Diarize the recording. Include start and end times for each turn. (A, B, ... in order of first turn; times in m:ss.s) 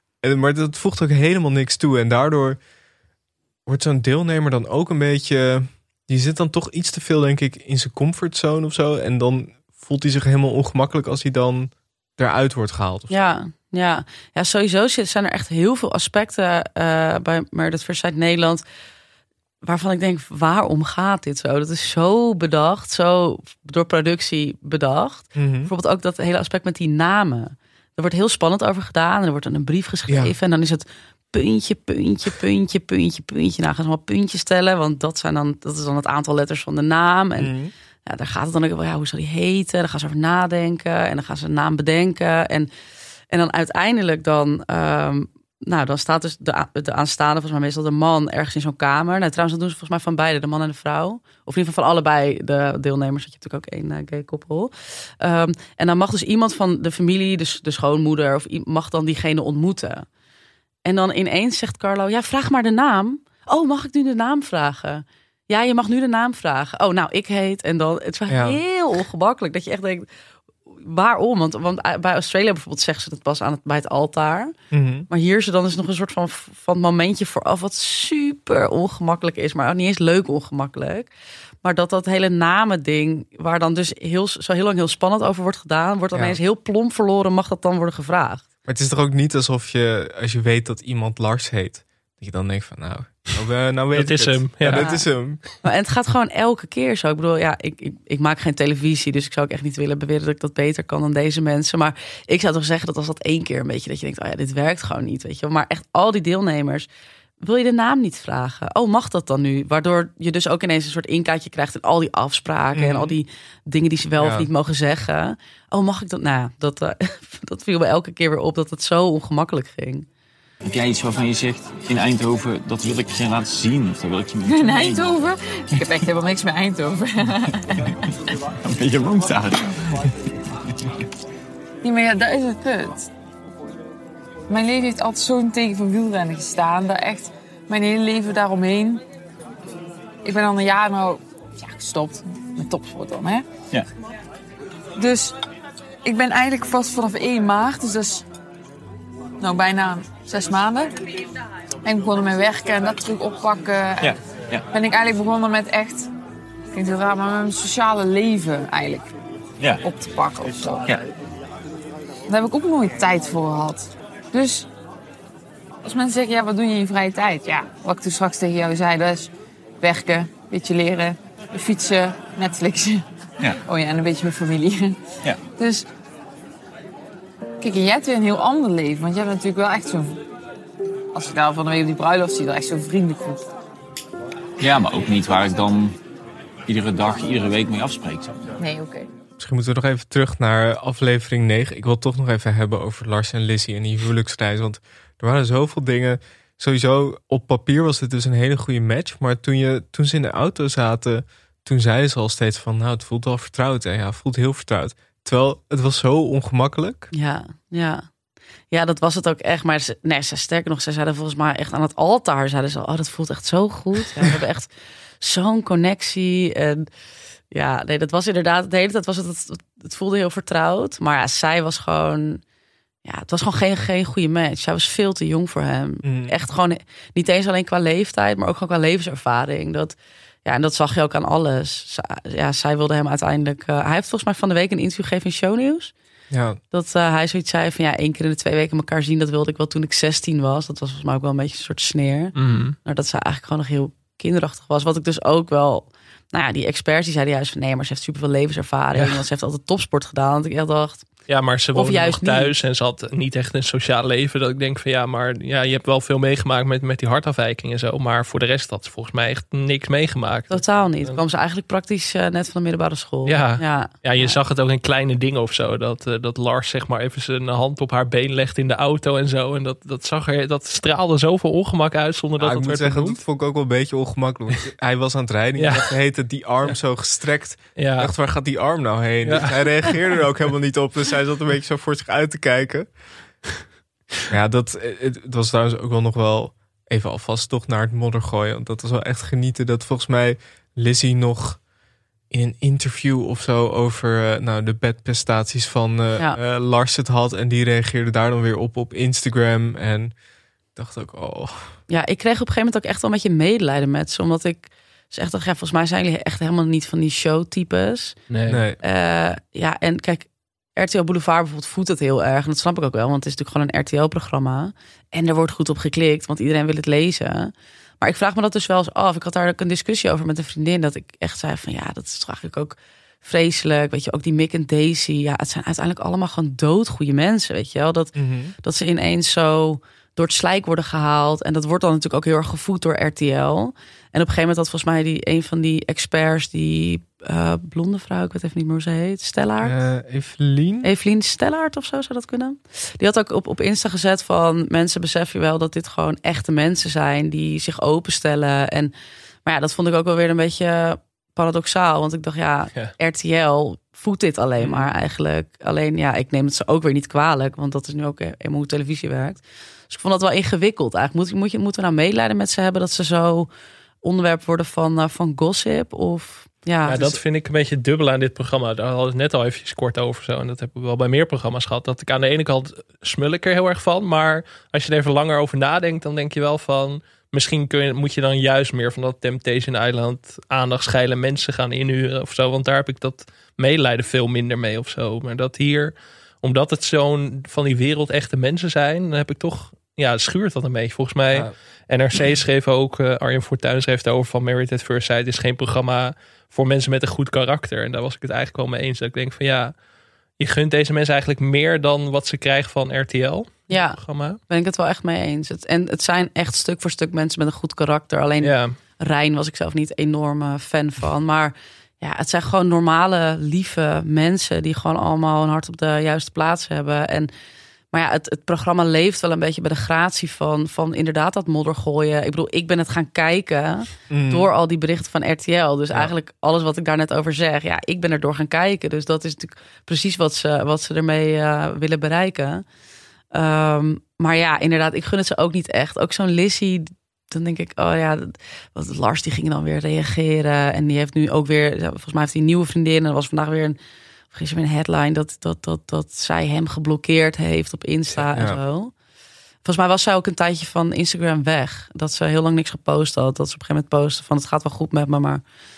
0:00.2-0:02.6 A
0:03.6-0:13.3 A
0:13.1-0:18.6 B
0:19.6-0:37.5 B
0:25.4-0:25.7 A
0:30.1-0:30.3 A
0:37.4-0:37.7 A
0:38.0-0:42.7 B
0:43.3-1:00.0 B
1:00.8-1:10.1 B
1:08.3-1:08.6 A
1:10.8-1:14.5 B
1:14.7-1:15.1 A
1:15.1-1:21.1 B
1:21.6-1:28.4 B
1:28.7-1:35.4 A
1:33.9-1:34.9 C
1:34.7-1:35.1 B
1:35.6-1:46.9 B
1:47.4-2:00.0 B
1:52.7-1:53.1 A
1:54.2-1:54.5 A
2:00.6-2:05.0 D
2:04.4-2:07.9 E
2:08.6-2:09.8 D
2:11.8-2:13.1 E
2:14.5-2:19.0 E
2:20.2-2:23.4 E
2:25.0-2:25.4 E
2:26.0-2:28.2 E
2:29.4-2:30.9 E
2:31.8-2:34.2 E
2:34.0-2:34.6 D
2:34.7-2:36.1 E
2:36.7-2:39.1 E
2:39.8-2:40.9 E
2:42.3-2:44.7 E
2:45.8-2:53.0 E
2:53.6-2:55.0 E
2:55.6-2:55.8 E
2:57.6-3:00.2 E
3:01.1-3:03.5 E
3:04.6-3:05.9 D
3:06.7-3:08.4 D
3:08.6-3:09.1 E
3:09.4-3:27.1 A
3:27.1-3:28.0 B
3:28.7-3:34.7 B
3:35.2-3:36.9 B
3:37.5-3:42.4 B
3:43.0-3:55.9 B
3:46.0-3:46.3 A
3:56.3-3:56.6 A
3:56.7-4:11.1 B
4:02.4-4:02.8 C
4:08.9-4:09.2 C
4:11.3-4:21.2 C
4:11.7-4:12.5 B
4:20.5-4:24.4 B
4:23.2-4:33.2 C
4:32.4-4:42.9 A
4:35.6-4:35.9 C
4:37.8-4:38.1 C
4:39.2-4:40.1 C
4:44.3-4:51.6 A
4:52.3-5:00.1 A
5:00.7-5:01.8 A
5:01.9-5:08.2 B
5:08.3-5:08.6 C
5:08.5-5:08.8 A
5:08.8-5:39.8 B
5:28.2-5:28.5 A
5:39.6-5:40.9 A
5:40.8-5:48.9 B
5:49.4-6:03.5 B
5:54.6-5:54.9 C
6:04.0-6:07.0 B
6:06.8-6:39.7 C
6:06.9-6:07.2 A
6:40.4-6:44.4 C
6:43.7-6:57.3 B
6:48.4-6:48.8 C
6:57.9-7:12.6 B
7:04.1-7:04.5 A
7:13.3-7:23.8 B
7:24.3-7:28.9 B
7:29.6-7:35.4 B